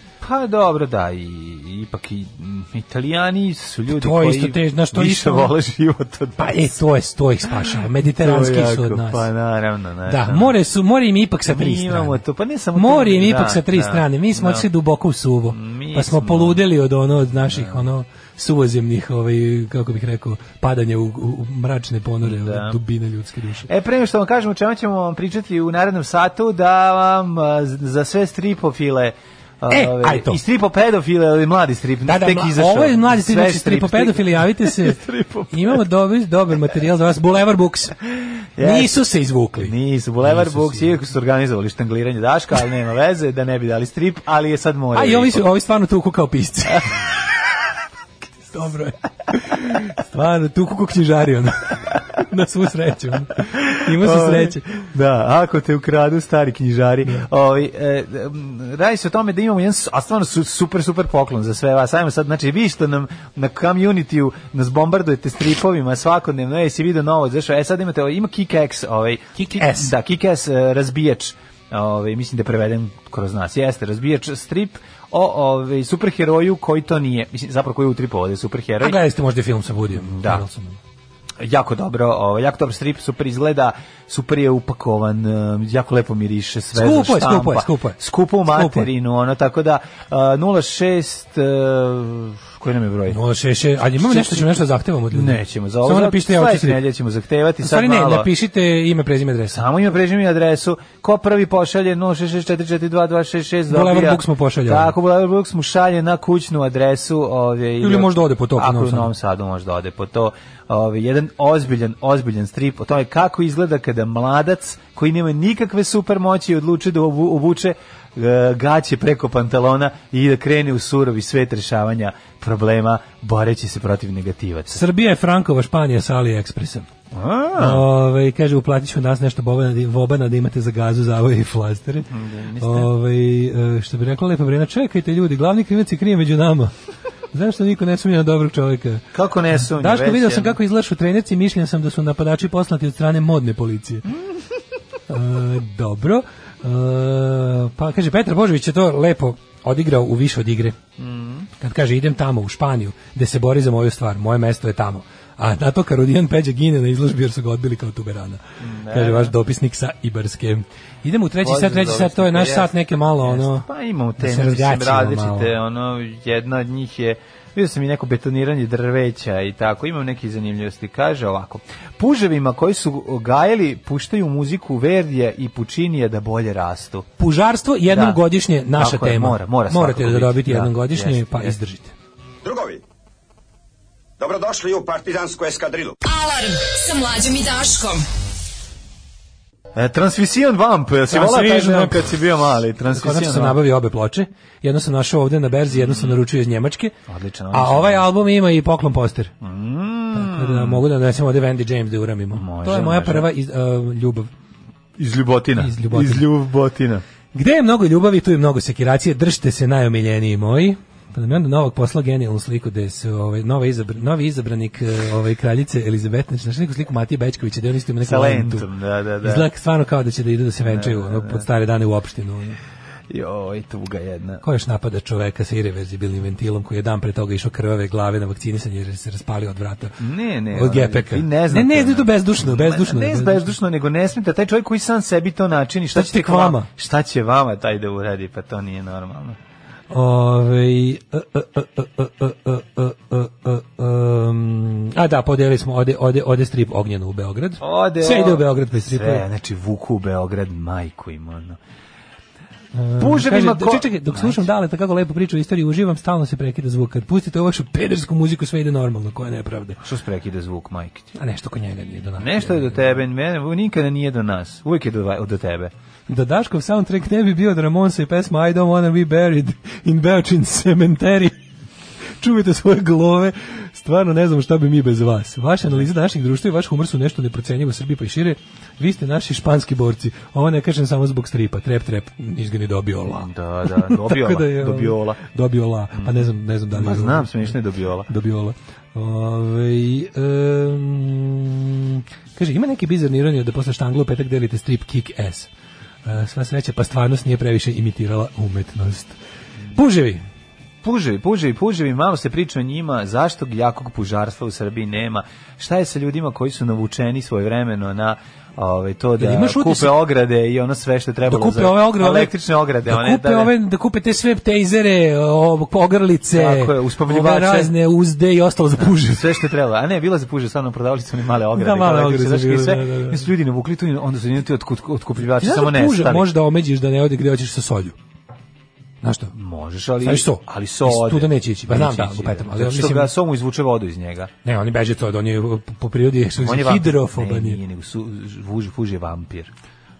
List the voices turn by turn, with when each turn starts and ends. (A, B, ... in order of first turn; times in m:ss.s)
0:00.2-0:06.7 A
0:03.9-0:05.5 B
0:06.4-0:09.3 B
0:08.0-0:10.5 A
0:10.1-0:12.2 B
0:11.5-0:14.7 A
0:12.7-0:23.7 B
0:15.5-0:16.6 A
0:17.5-0:17.8 A
0:22.2-0:22.8 A
0:23.7-0:35.8 A
0:29.7-0:30.4 B
0:32.0-0:38.0 B
0:38.6-0:39.0 A
0:38.6-0:40.9 B
0:39.6-0:45.4 A
0:44.9-0:47.0 B
0:48.5-0:54.8 B
0:53.5-1:19.0 A
1:09.4-1:09.9 B
1:18.8-1:20.8 B
1:19.9-1:20.4 A
1:21.4-1:33.2 A
1:26.7-1:28.9 B
1:33.1-1:36.8 B
1:34.0-1:38.3 A
1:37.6-1:39.6 B
1:39.5-2:04.8 A
1:43.7-1:44.9 B
1:47.8-1:49.1 B
2:04.7-2:06.9 B
2:07.1-2:07.8 A
2:07.5-2:16.7 B
2:12.1-2:12.9 A
2:17.3-2:24.1 B
2:19.1-2:20.6 A
2:25.1-2:30.8 B
2:31.0-2:31.5 A
2:31.6-2:43.6 B
2:38.6-2:39.3 A
2:41.4-2:57.1 A
2:44.2-2:45.5 B
2:57.2-3:01.9 B
2:57.9-3:01.6 A
3:02.4-3:02.8 C
3:04.2-3:05.9 C
3:06.0-3:08.0 D
3:09.7-3:13.6 A
3:11.1-3:12.1 B
3:12.9-3:16.9 B
3:15.7-3:16.2 A
3:17.1-3:18.1 A
3:17.5-3:19.3 B
3:19.4-3:20.8 A
3:20.1-3:24.3 B
3:22.3-3:23.3 A
3:25.0-3:27.0 A
3:25.6-3:26.2 B
3:27.3-3:38.7 B
3:38.0-3:39.5 A
3:39.2-3:42.6 B
3:40.6-3:41.4 A
3:43.1-3:44.4 A
3:44.4-3:50.0 B
3:50.0-3:59.4 A
3:50.5-3:53.5 B
3:55.9-3:56.7 B
3:59.9-4:09.2 B
4:07.6-4:11.6 A
4:12.7-4:19.8 B
4:13.0-4:14.5 A
4:19.8-4:21.1 A
4:21.1-4:22.8 B
4:22.2-4:25.7 A
4:26.1-4:31.4 B
4:32.2-4:47.5 B
4:43.1-4:45.2 A
4:45.9-4:48.1 A
4:48.1-4:55.5 B
4:56.0-4:59.2 B
4:59.7-5:00.2 B
5:00.8-5:13.5 A
5:09.2-5:10.0 B
5:11.3-5:12.3 B
5:12.8-5:19.3 B
5:16.3-5:17.7 A
5:18.8-5:26.3 A
5:21.5-5:23.3 B
5:25.4-5:27.9 B
5:29.0-5:29.3 B
5:29.3-5:34.3 A
5:30.0-5:33.1 B
5:34.4-5:37.6 B
5:36.4-5:39.5 A